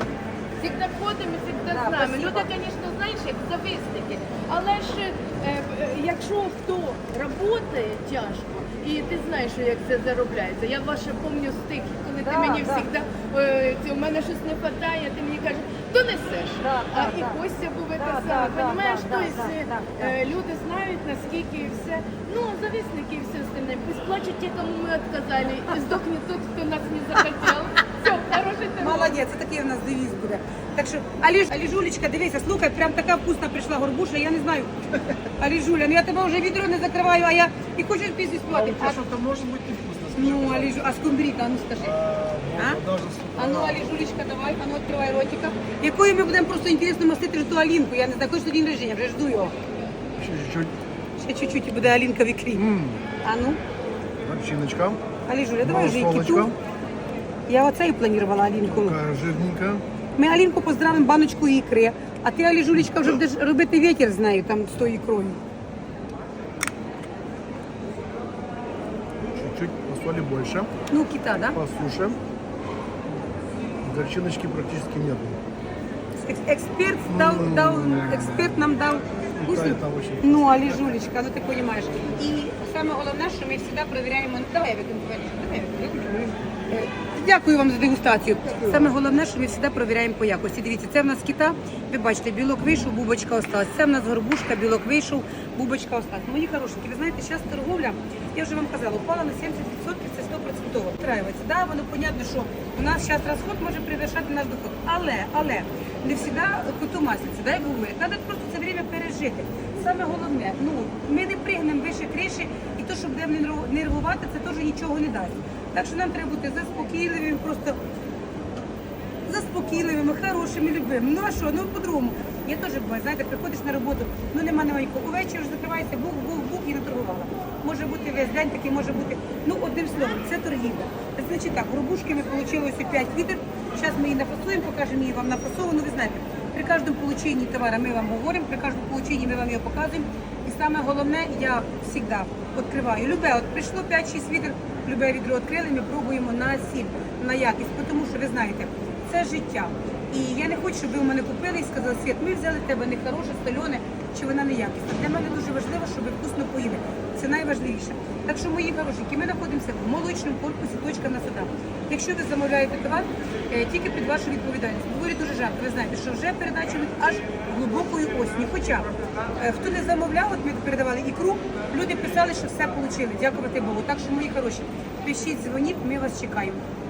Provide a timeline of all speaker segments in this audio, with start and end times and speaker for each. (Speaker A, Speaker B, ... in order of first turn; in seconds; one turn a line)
Speaker A: 0.6-29.2
Speaker B: 1.7-2.5
Speaker B: 12.2-12.9
Speaker B: 16.6-17.4
Speaker B: 18.0-20.2
Speaker B: 28.8-39.0
Speaker C: 38.5-40.8
Speaker B: 40.1-42.0
Speaker C: 41.8-43.9
Speaker B: 42.5-42.8
Speaker B: 43.4-49.5
Speaker C: 50.2-50.7
Speaker B: 51.2-52.7
Speaker C: 52.5-53.0
Speaker B: 53.2-53.6
Speaker C: 54.2-55.0
Speaker B: 55.3-56.5
Speaker C: 55.6-56.5
Speaker B: 57.5-59.0
Speaker C: 58.6-59.8
Speaker B: 60.2-65.4
Speaker C: 69.2-70.7
Speaker B: 70.9-71.6
Speaker C: 71.5-72.2
Speaker C: 73.8-75.4
Speaker B: 76.2-117.8
Speaker C: 77.1-78.7
Speaker C: 79.4-80.7
Speaker C: 88.6-88.9
Speaker B: 119.3-176.6